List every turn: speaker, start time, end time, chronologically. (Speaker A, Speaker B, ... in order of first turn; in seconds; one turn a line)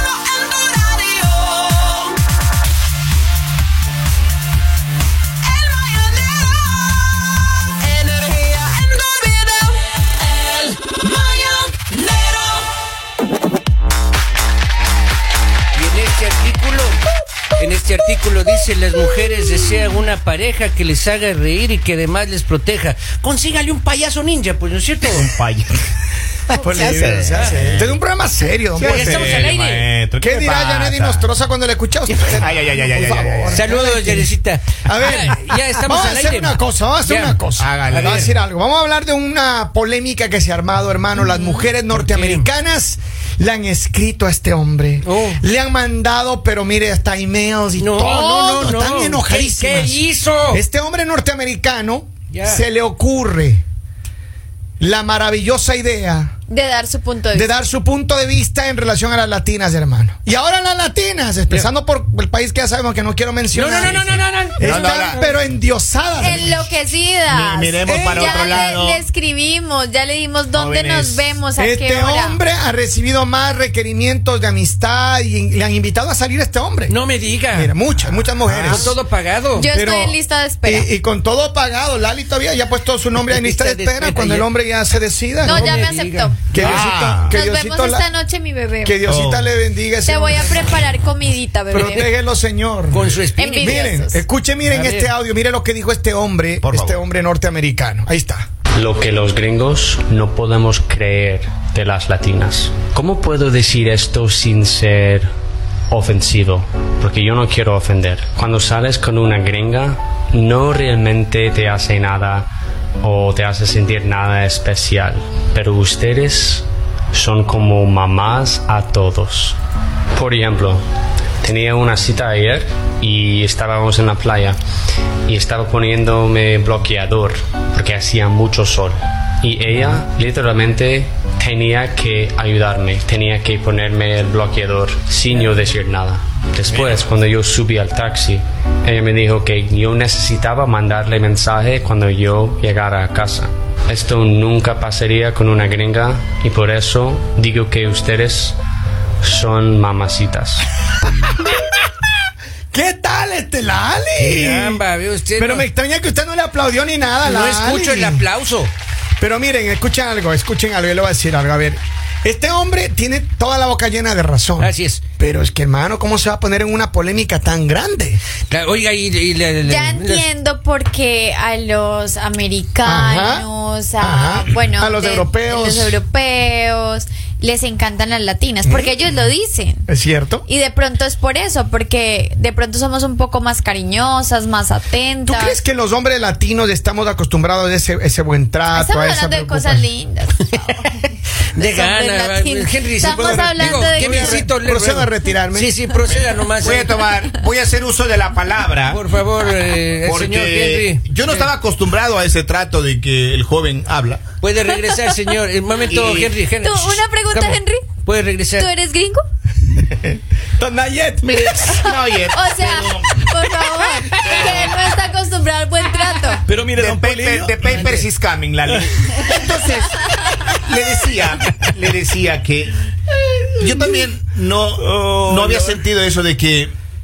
Speaker A: 0.4-1.7
Speaker A: 7.9-9.6
Speaker A: 10.5-12.4
Speaker A: 15.7-17.0
Speaker A: 17.6-25.3
Speaker B: 25.1-25.8
Speaker A: 26.6-27.6
Speaker C: 26.6-29.5
Speaker B: 26.8-28.0
Speaker B: 28.7-31.3
Speaker A: 28.8-29.9
Speaker C: 30.2-34.3
Speaker A: 32.1-32.3
Speaker B: 32.3-33.7
Speaker A: 33.5-38.3
Speaker C: 34.8-53.6
Speaker B: 37.5-38.4
Speaker A: 41.2-42.5
Speaker A: 45.0-45.4
Speaker A: 47.8-50.6
Speaker A: 52.3-52.6
Speaker C: 54.8-56.3
Speaker D: 56.5-57.5
Speaker C: 57.3-66.7
Speaker A: 63.5-65.4
Speaker B: 64.6-65.2
Speaker D: 66.2-72.4
Speaker B: 67.3-69.0
Speaker A: 67.9-68.3
Speaker B: 70.5-71.4
Speaker C: 71.6-77.0
Speaker A: 76.9-77.7
Speaker C: 77.5-79.0
Speaker B: 78.0-78.8
Speaker A: 78.6-79.7
Speaker D: 79.5-80.9
Speaker C: 79.7-85.8
Speaker A: 83.2-84.5
Speaker A: 85.4-86.8
Speaker D: 85.4-86.4
Speaker C: 86.5-88.1
Speaker B: 86.6-87.4
Speaker D: 87.3-89.0
Speaker C: 88.8-90.9
Speaker B: 89.0-89.5
Speaker D: 90.0-92.1
Speaker C: 91.7-98.5
Speaker A: 92.9-93.8
Speaker D: 93.4-94.2
Speaker A: 94.7-95.1
Speaker B: 96.6-97.0
Speaker E: 98.7-105.3
Speaker E: 105.9-112.5
Speaker E: 113.0-119.6
Speaker E: 120.1-120.8
Speaker E: 121.4-124.6
Speaker E: 125.3-148.6
Speaker E: 149.2-150.6
Speaker C: 152.7-154.8
Speaker A: 154.2-155.7
Speaker C: 155.4-158.2
Speaker A: 157.2-158.7
Speaker C: 159.2-168.2
Speaker A: 164.6-165.0
Speaker A: 168.5-170.3
Speaker D: 169.6-179.8
Speaker C: 172.8-176.0
Speaker C: 178.6-179.0
Speaker C: 179.9-180.4
Speaker D: 180.4-185.6
Speaker C: 185.2-189.9
Speaker D: 188.7-190.8
Speaker D: 191.6-194.4
Speaker A: 191.6-197.0
Speaker C: 193.0-195.8
Speaker B: 196.1-204.2
Speaker A: 198.9-201.5
Speaker A: 204.4-208.7
Speaker D: 204.7-205.1
Speaker B: 205.8-206.4
Speaker D: 206.6-207.9
Speaker D: 208.6-209.2
Speaker C: 209.8-211.8
Speaker B: 211.2-213.2
Speaker D: 211.7-216.4
Speaker B: 214.1-214.7
Speaker C: 216.5-217.9
Speaker B: 216.7-222.7
Speaker C: 218.7-219.4
Speaker C: 220.7-221.6
Speaker C: 223.3-224.1
Speaker B: 223.6-226.7
Speaker C: 224.8-225.8